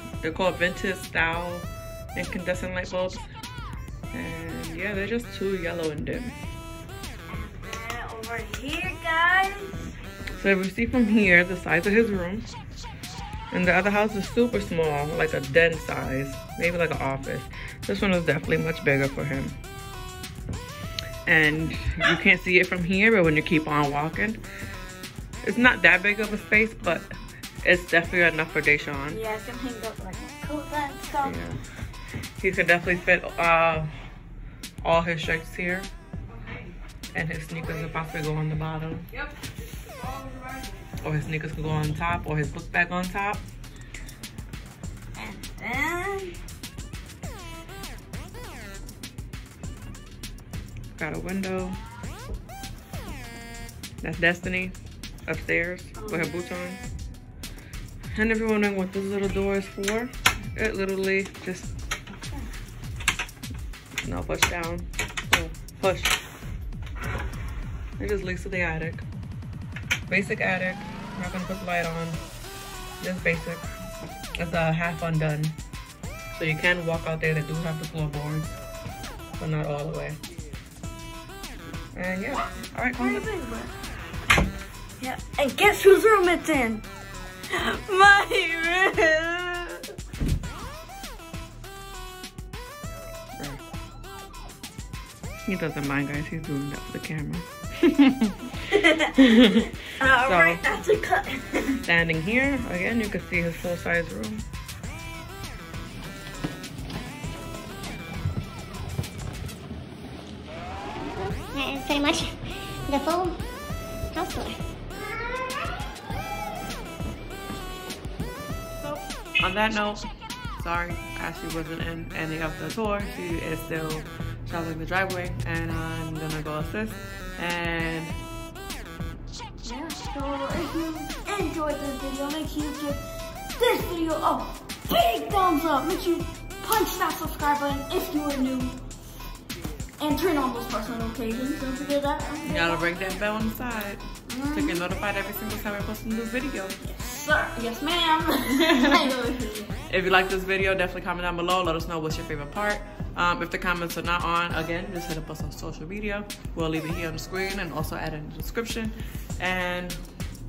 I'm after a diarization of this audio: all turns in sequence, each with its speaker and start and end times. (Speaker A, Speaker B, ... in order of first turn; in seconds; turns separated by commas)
Speaker A: 0.2-3.3, Speaker A: 4.1-6.3, Speaker B: 7.3-9.9, Speaker A: 10.3-12.5, Speaker A: 13.5-19.6, Speaker A: 21.2-24.4, Speaker A: 25.4-27.1, Speaker A: 27.6-29.2, Speaker B: 29.1-31.3, Speaker A: 31.2-31.6, Speaker A: 32.4-33.9, Speaker A: 34.8-35.9, Speaker B: 36.3-36.7, Speaker A: 37.1-39.1, Speaker B: 39.1-40.8, Speaker A: 41.0-43.4, Speaker B: 45.1-46.3, Speaker A: 51.0-51.8, Speaker A: 54.0-54.7, Speaker A: 55.2-56.8, Speaker B: 56.0-56.3, Speaker A: 58.1-61.7, Speaker B: 62.1-62.5, Speaker A: 64.0-66.2, Speaker A: 68.0-69.0, Speaker A: 70.1-72.2, Speaker A: 73.0-73.7, Speaker A: 74.3-75.6, Speaker A: 76.3-78.6, Speaker A: 79.4-80.2, Speaker A: 81.9-83.3, Speaker B: 83.0-83.7, Speaker B: 85.0-86.8, Speaker B: 87.5-89.8, Speaker A: 93.3-93.6, Speaker A: 95.5-100.6, Speaker B: 98.7-101.8, Speaker A: 101.8-104.4, Speaker C: 111.0-112.3, Speaker C: 112.8-113.4, Speaker C: 114.1-114.6, Speaker A: 118.8-120.0, Speaker A: 120.6-128.2, Speaker B: 129.6-133.0, Speaker B: 133.6-138.8, Speaker B: 140.0-142.8, Speaker A: 142.4-146.8, Speaker B: 144.3-144.8, Speaker B: 146.8-149.7, Speaker A: 148.6-149.0, Speaker A: 149.9-160.0